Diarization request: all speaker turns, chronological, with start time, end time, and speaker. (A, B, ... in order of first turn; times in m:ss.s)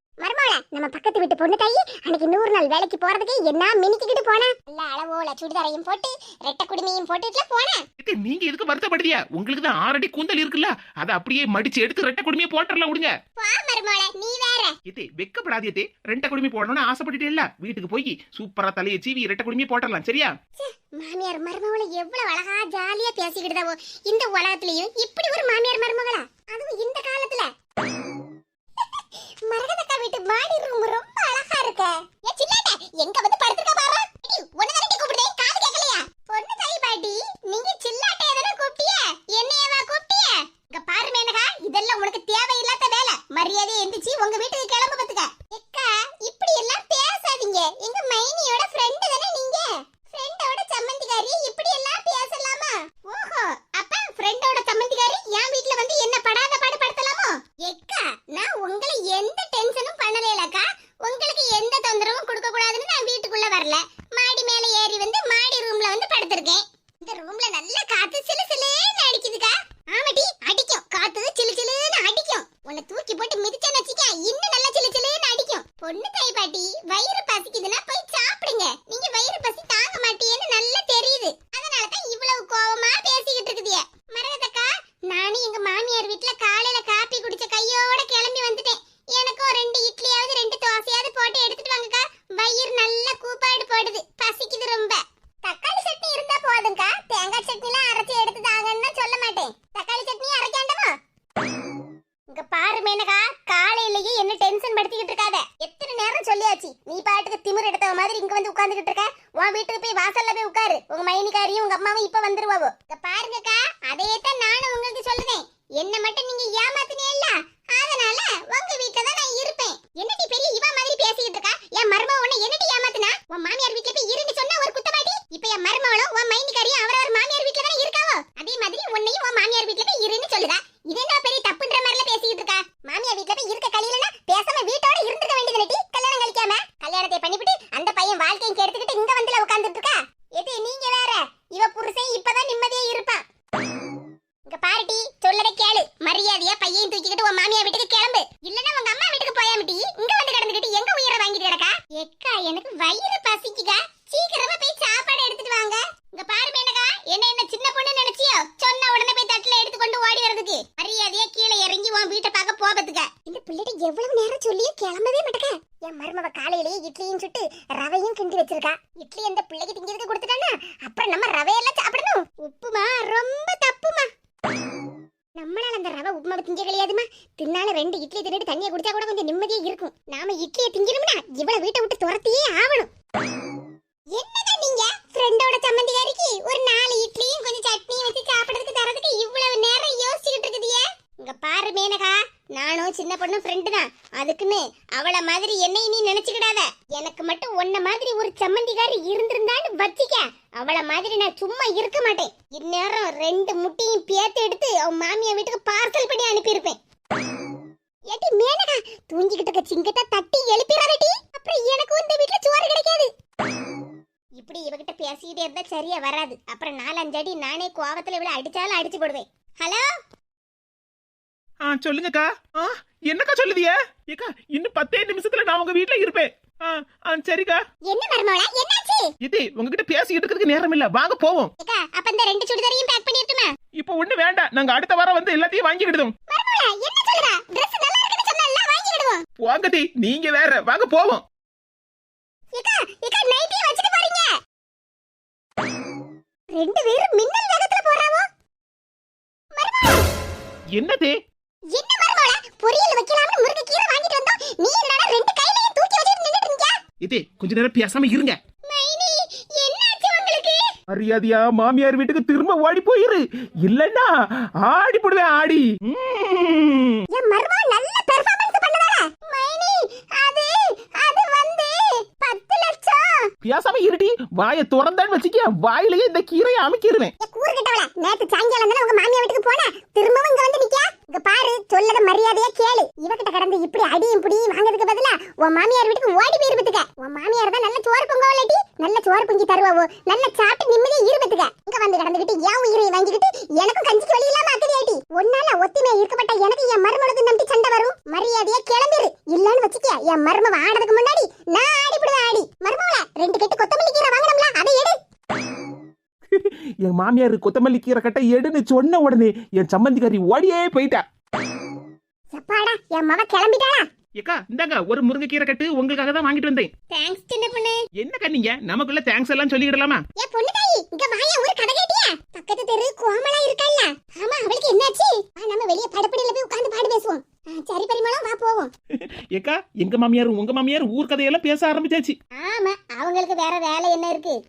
0:00.2-0:07.8 A
0:08.0-0:13.1 B
0:13.4-0:14.7 A
0:14.9-0:20.3 B
0:20.6-0:27.5 A
0:28.8-1:40.9 A
1:42.3-2:23.2 A
2:24.5-2:54.1 A
2:55.4-3:02.9 A
3:04.1-3:26.8 A
3:28.1-3:33.1 A
3:34.4-3:39.9 A
3:41.6-3:47.6 B
3:47.9-3:49.1 A
3:49.2-3:51.5 B
3:51.6-3:53.5 A
3:53.8-3:56.1 B
3:56.3-3:59.2 A
3:59.4-4:01.2 B
4:02.5-4:04.4 A
4:06.5-4:08.3 A
4:09.5-4:10.1 A
4:10.7-4:11.2 B
4:11.7-4:16.8 A
4:17.0-4:18.4 B
4:18.7-4:20.7 A
4:20.9-4:27.0 B
4:27.1-4:33.3 A
4:33.4-4:37.1 B
4:37.2-5:05.0 A
5:06.3-5:11.0 B
5:12.3-5:13.8 A
5:14.2-5:16.7 B
5:16.9-5:17.8 A
5:18.0-5:20.0 B
5:20.2-5:28.7 A
5:29.3-5:32.1 B
5:32.4-5:34.4 A